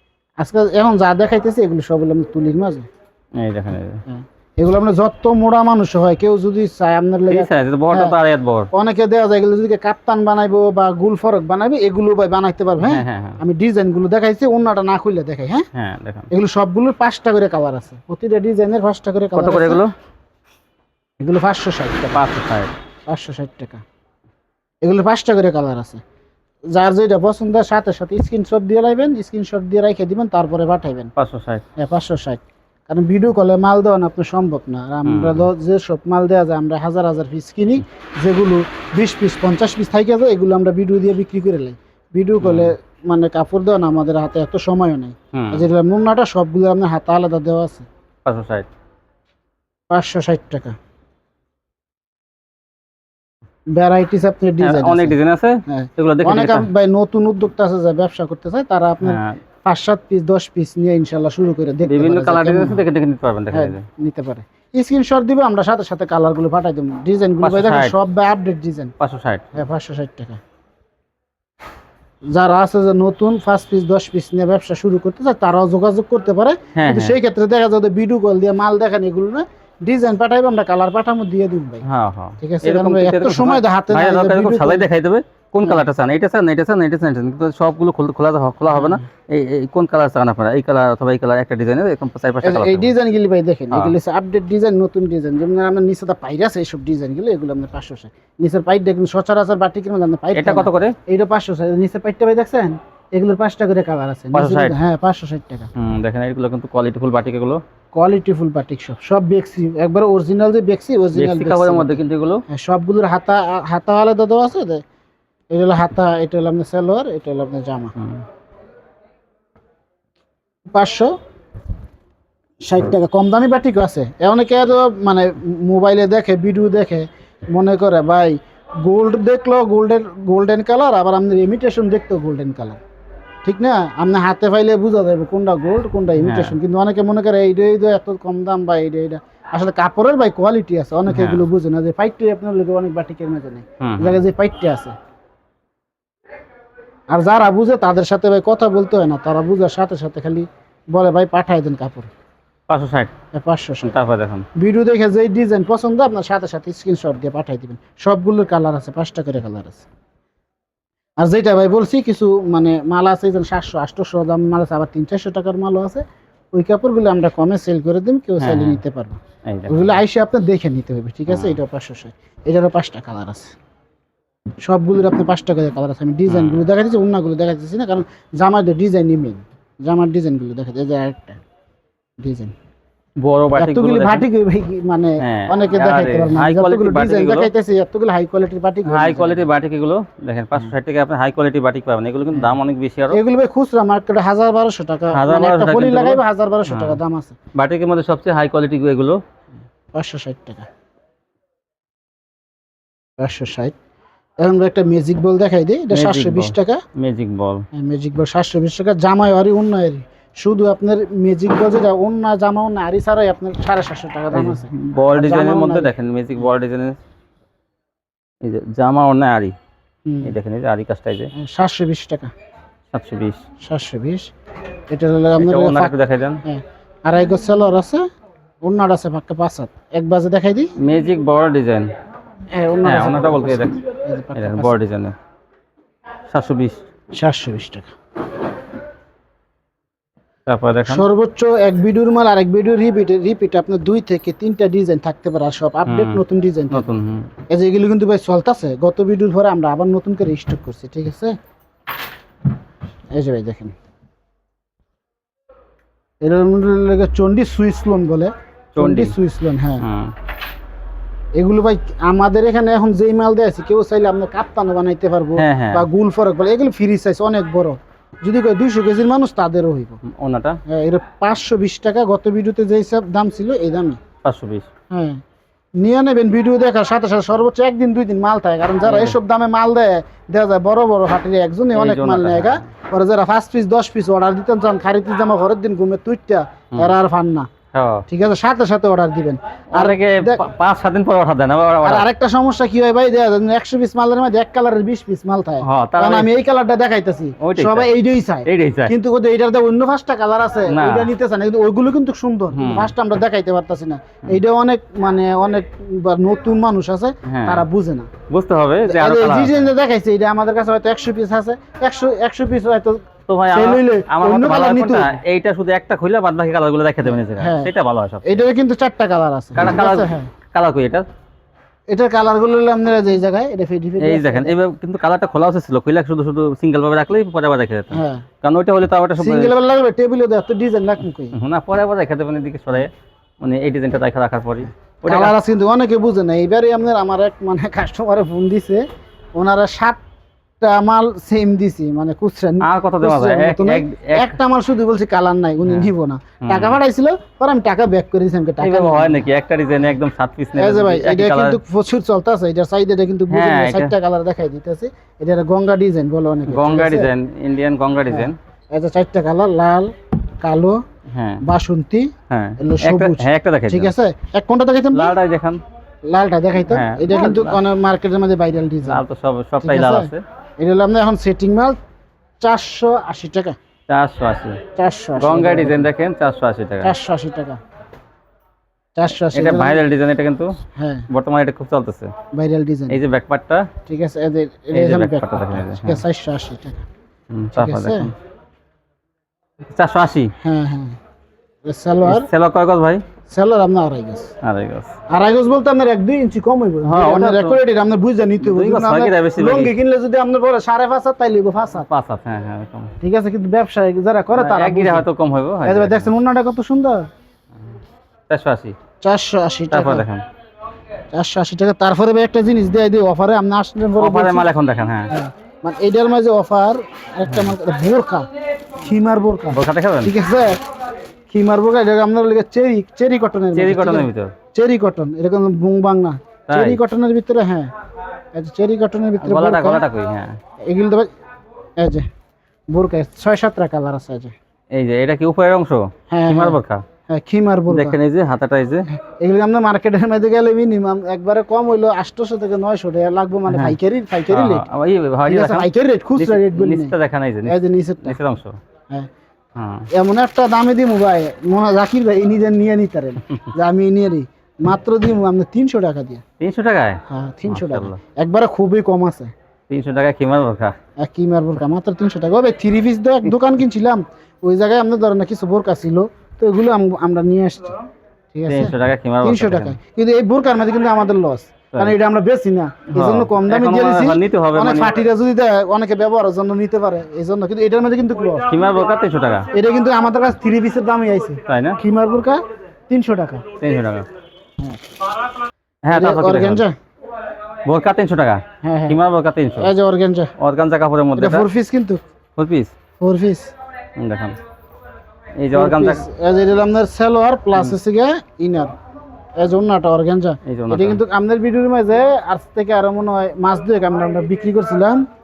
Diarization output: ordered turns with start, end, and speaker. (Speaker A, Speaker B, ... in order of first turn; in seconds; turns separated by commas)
Speaker A: 0.4-2.9, Speaker B: 3.4-4.0, Speaker A: 4.1-8.2, Speaker B: 7.3-8.7, Speaker A: 8.7-15.7, Speaker B: 12.8-13.4, Speaker B: 15.7-16.3, Speaker A: 16.3-19.8, Speaker B: 19.4-19.9, Speaker A: 21.2-22.2, Speaker B: 22.1-22.7, Speaker A: 23.1-23.8, Speaker A: 24.8-26.0, Speaker A: 26.7-31.1, Speaker B: 31.2-31.6, Speaker A: 31.8-47.9, Speaker B: 35.0-35.5, Speaker B: 42.4-42.7, Speaker B: 45.3-45.7, Speaker B: 48.2-48.7, Speaker A: 49.9-50.8, Speaker A: 53.7-62.8, Speaker B: 54.6-56.7, Speaker B: 59.0-59.4, Speaker B: 61.9-63.8, Speaker A: 63.5-68.9, Speaker B: 67.4-67.9, Speaker B: 69.0-69.5, Speaker A: 69.5-70.4, Speaker A: 72.3-81.8, Speaker B: 76.8-77.2, Speaker B: 81.8-92.9, Speaker A: 82.4-84.9, Speaker A: 88.7-89.0, Speaker A: 92.4-105.7, Speaker B: 100.3-101.0, Speaker B: 104.3-104.8, Speaker B: 105.8-107.6, Speaker A: 107.9-114.8, Speaker B: 111.1-112.4, Speaker A: 115.5-118.0, Speaker A: 120.7-121.1, Speaker A: 122.6-132.8, Speaker A: 133.4-144.9, Speaker B: 136.2-136.6, Speaker B: 141.1-141.4, Speaker B: 143.8-144.2, Speaker A: 147.1-152.1, Speaker B: 152.7-153.1, Speaker A: 153.3-154.0, Speaker B: 153.9-154.4, Speaker A: 154.6-159.9, Speaker A: 161.2-173.6, Speaker B: 168.4-168.8, Speaker B: 169.5-170.0, Speaker B: 171.3-171.6, Speaker A: 174.6-181.4, Speaker B: 176.3-176.7, Speaker A: 182.2-182.5, Speaker B: 183.2-184.3, Speaker A: 183.6-189.5, Speaker B: 185.2-187.5, Speaker B: 188.9-193.2, Speaker A: 193.1-197.3, Speaker B: 195.1-197.0, Speaker B: 197.5-199.2, Speaker A: 199.9-200.7, Speaker A: 203.2-203.7, Speaker A: 204.4-206.8, Speaker B: 205.9-207.7, Speaker A: 207.7-215.9, Speaker B: 214.3-217.0, Speaker B: 218.4-219.5, Speaker A: 220.1-220.3, Speaker B: 220.2-221.3, Speaker A: 221.3-222.3, Speaker B: 222.9-223.4, Speaker A: 223.6-224.3, Speaker A: 224.9-228.0, Speaker B: 225.4-226.4, Speaker A: 228.6-230.7, Speaker B: 230.8-231.9, Speaker A: 232.6-234.8, Speaker B: 232.8-233.8, Speaker B: 234.3-235.2, Speaker B: 236.3-236.8, Speaker A: 237.2-237.9, Speaker B: 240.5-241.1, Speaker A: 240.9-246.9, Speaker B: 245.9-247.3, Speaker A: 247.5-251.4, Speaker A: 253.1-253.7, Speaker A: 256.2-259.9, Speaker B: 258.8-259.2, Speaker B: 259.8-260.1, Speaker A: 261.4-270.0, Speaker B: 265.4-265.9, Speaker B: 270.1-270.6, Speaker A: 270.7-274.0, Speaker B: 274.2-274.7, Speaker A: 274.9-275.2, Speaker A: 275.8-287.5, Speaker B: 278.8-279.2, Speaker B: 281.7-282.7, Speaker B: 287.7-288.1, Speaker A: 288.1-290.4, Speaker B: 289.7-292.1, Speaker A: 291.8-308.1, Speaker B: 295.6-296.3, Speaker B: 297.4-297.9, Speaker B: 298.5-298.9, Speaker B: 300.7-301.1, Speaker B: 302.5-302.9, Speaker B: 307.3-307.6, Speaker B: 308.3-309.7, Speaker A: 308.9-315.1, Speaker B: 313.3-318.4, Speaker A: 317.1-317.7, Speaker A: 318.2-320.3, Speaker B: 319.6-321.1, Speaker A: 321.9-324.6, Speaker B: 324.0-329.6, Speaker A: 327.9-328.2, Speaker A: 329.2-331.4, Speaker B: 331.3-335.3, Speaker A: 335.1-340.0, Speaker A: 340.6-349.3, Speaker B: 342.6-344.4, Speaker B: 346.4-346.8, Speaker B: 348.6-351.6, Speaker A: 350.6-357.1, Speaker B: 353.3-353.9, Speaker B: 356.5-358.4, Speaker A: 358.1-360.8, Speaker B: 361.1-361.4, Speaker A: 361.4-365.1, Speaker B: 362.3-363.9, Speaker B: 364.9-365.6, Speaker A: 366.1-369.0, Speaker B: 366.7-367.6, Speaker B: 368.9-370.2, Speaker A: 369.6-371.8, Speaker A: 372.4-373.6, Speaker B: 373.9-374.6, Speaker A: 374.8-375.9, Speaker B: 375.2-376.9, Speaker A: 376.8-377.6, Speaker A: 379.0-379.8, Speaker B: 379.3-380.6, Speaker A: 380.8-381.1, Speaker B: 381.1-382.1, Speaker A: 382.3-383.0, Speaker B: 382.9-383.7, Speaker A: 383.9-386.9, Speaker B: 384.7-386.0, Speaker B: 387.3-388.1, Speaker A: 387.6-388.1, Speaker B: 389.7-390.3, Speaker A: 390.4-391.0, Speaker A: 391.6-392.3, Speaker B: 392.0-393.0, Speaker A: 393.3-394.3, Speaker B: 394.4-394.9, Speaker A: 395.1-401.9, Speaker B: 396.8-397.6, Speaker B: 398.4-399.7, Speaker B: 401.9-402.9, Speaker A: 403.0-405.1, Speaker B: 404.4-406.1, Speaker A: 405.6-407.1, Speaker B: 408.3-408.8, Speaker A: 409.0-410.1, Speaker B: 409.7-410.2, Speaker A: 411.1-414.5, Speaker B: 414.0-415.1, Speaker A: 415.1-418.3, Speaker A: 418.8-420.6, Speaker B: 419.5-420.1, Speaker A: 421.3-427.7, Speaker B: 423.6-424.3, Speaker B: 426.5-426.8, Speaker A: 428.3-429.8, Speaker B: 429.2-430.4, Speaker A: 430.7-431.1, Speaker A: 431.8-432.1, Speaker A: 432.7-434.3, Speaker B: 434.7-436.8, Speaker A: 436.1-436.6, Speaker A: 437.1-438.0, Speaker B: 437.7-438.9, Speaker A: 438.9-444.6, Speaker B: 443.5-443.8, Speaker B: 444.3-448.6, Speaker A: 445.3-448.2, Speaker B: 449.6-449.9, Speaker A: 449.9-456.2, Speaker B: 456.4-458.0, Speaker A: 457.1-459.3, Speaker B: 459.7-460.7, Speaker A: 461.0-467.8, Speaker A: 468.3-478.5, Speaker B: 468.5-469.8, Speaker B: 472.9-475.0, Speaker B: 478.5-479.5, Speaker A: 479.5-483.5, Speaker B: 481.5-481.8, Speaker B: 483.6-484.1, Speaker B: 485.8-486.6, Speaker A: 485.9-486.8, Speaker B: 487.6-489.7, Speaker A: 488.6-489.0, Speaker A: 489.6-490.3, Speaker B: 490.4-491.5, Speaker A: 491.2-492.0, Speaker B: 492.4-492.7, Speaker A: 493.0-493.5, Speaker B: 494.0-494.4, Speaker B: 495.4-496.0, Speaker A: 495.5-498.7, Speaker A: 499.4-505.1, Speaker B: 500.5-501.0